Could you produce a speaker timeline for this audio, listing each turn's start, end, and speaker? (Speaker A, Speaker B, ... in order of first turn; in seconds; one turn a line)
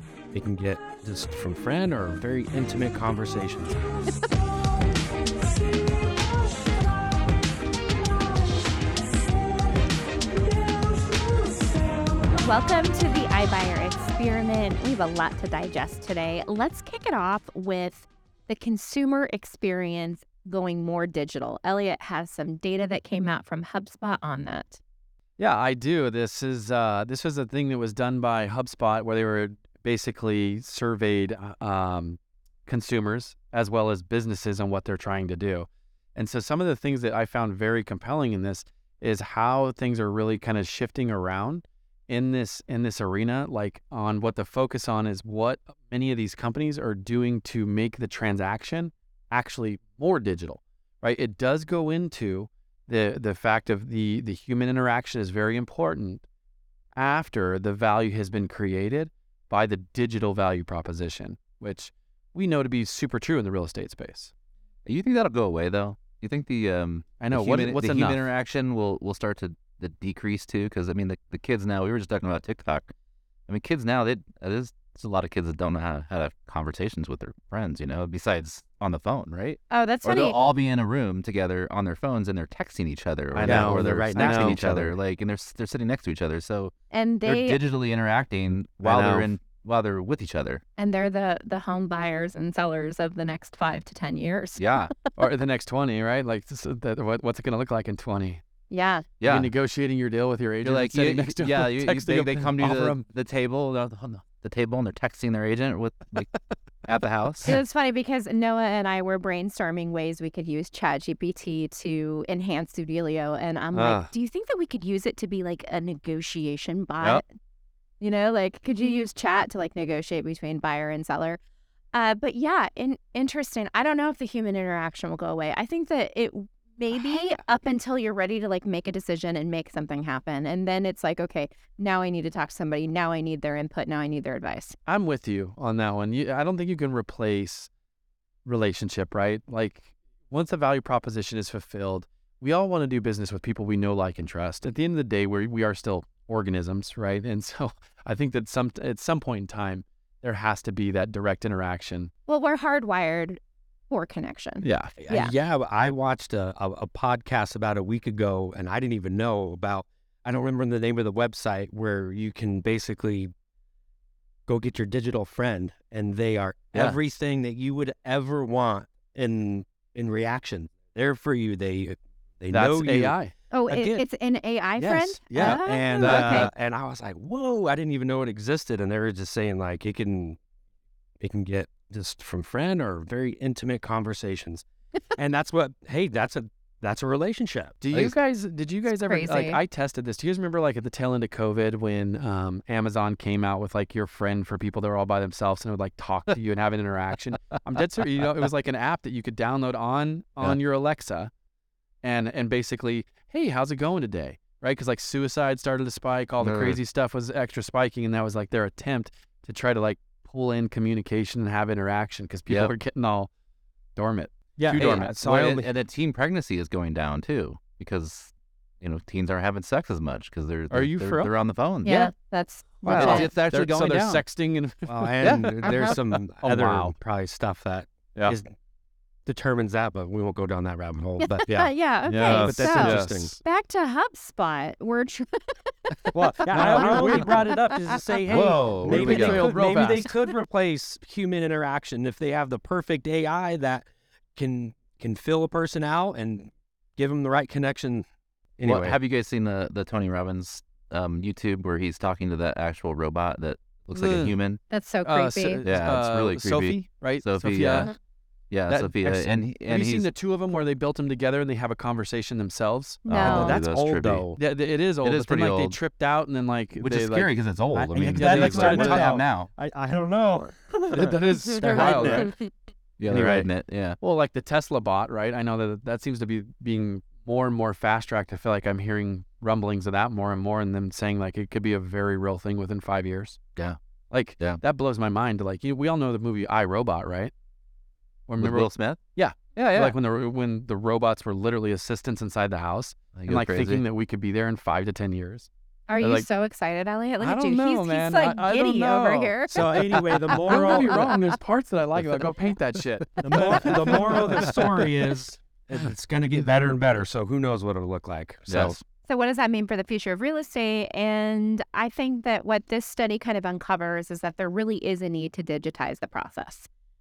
Speaker A: 0.3-3.8
Speaker B: 12.4-24.8
Speaker C: 25.4-56.2
Speaker C: 57.0-64.3
Speaker D: 64.9-72.9
Speaker C: 67.2-68.3
Speaker D: 73.5-86.7
Speaker B: 79.7-80.4
Speaker C: 83.3-84.9
Speaker A: 83.4-84.8
Speaker B: 86.9-87.6
Speaker D: 87.3-90.6
Speaker C: 88.8-89.3
Speaker B: 90.8-94.9
Speaker D: 94.6-94.9
Speaker C: 95.2-98.4
Speaker B: 98.7-99.1
Speaker D: 99.2-99.5
Speaker C: 99.2-103.0
Speaker D: 100.6-106.3
Speaker D: 106.8-107.6
Speaker B: 107.5-117.2
Speaker A: 113.7-114.1
Speaker B: 118.0-121.4
Speaker B: 121.9-134.8
Speaker C: 134.9-137.7
Speaker C: 138.4-152.1
Speaker B: 152.3-153.4
Speaker B: 153.9-155.3
Speaker C: 154.6-154.9
Speaker A: 155.0-163.3
Speaker A: 164.5-173.2
Speaker D: 166.7-167.0
Speaker C: 172.5-173.3
Speaker B: 173.5-176.5
Speaker A: 173.7-174.0
Speaker C: 174.8-176.5
Speaker A: 175.3-180.4
Speaker A: 181.2-187.8
Speaker C: 187.8-201.3
Speaker B: 188.9-189.6
Speaker C: 202.0-213.3
Speaker D: 206.4-206.8
Speaker C: 214.0-215.1
Speaker A: 214.6-215.7
Speaker D: 214.7-222.1
Speaker C: 220.7-221.3
Speaker B: 221.8-223.3
Speaker C: 222.8-227.0
Speaker D: 222.8-224.2
Speaker A: 224.9-228.5
Speaker B: 225.7-225.9
Speaker A: 229.3-233.3
Speaker B: 231.2-238.0
Speaker C: 232.1-233.4
Speaker A: 236.1-248.1
Speaker C: 236.5-237.4
Speaker D: 238.3-239.5
Speaker C: 238.8-240.1
Speaker A: 248.6-249.0
Speaker D: 248.7-254.6
Speaker C: 253.9-254.4
Speaker B: 254.7-255.7
Speaker C: 255.0-257.9
Speaker D: 255.6-257.9
Speaker D: 258.5-260.1
Speaker C: 258.7-263.4
Speaker B: 263.1-263.6
Speaker D: 263.1-264.2
Speaker A: 263.2-264.4
Speaker C: 264.4-267.3
Speaker D: 265.0-265.8
Speaker D: 266.8-269.5
Speaker A: 267.7-272.3
Speaker C: 268.1-269.1
Speaker C: 270.9-272.3
Speaker B: 271.7-272.4
Speaker D: 271.8-272.3
Speaker D: 273.0-274.0
Speaker A: 273.1-273.4
Speaker C: 273.1-273.5
Speaker C: 274.0-283.4
Speaker C: 284.1-287.3
Speaker C: 288.3-295.5
Speaker D: 288.4-289.0
Speaker D: 289.6-289.9
Speaker D: 293.1-293.8
Speaker B: 295.9-299.6
Speaker C: 296.0-296.3
Speaker C: 297.2-304.8
Speaker A: 299.5-301.1
Speaker B: 300.5-301.1
Speaker A: 303.2-308.8
Speaker D: 308.5-308.8
Speaker B: 309.1-316.7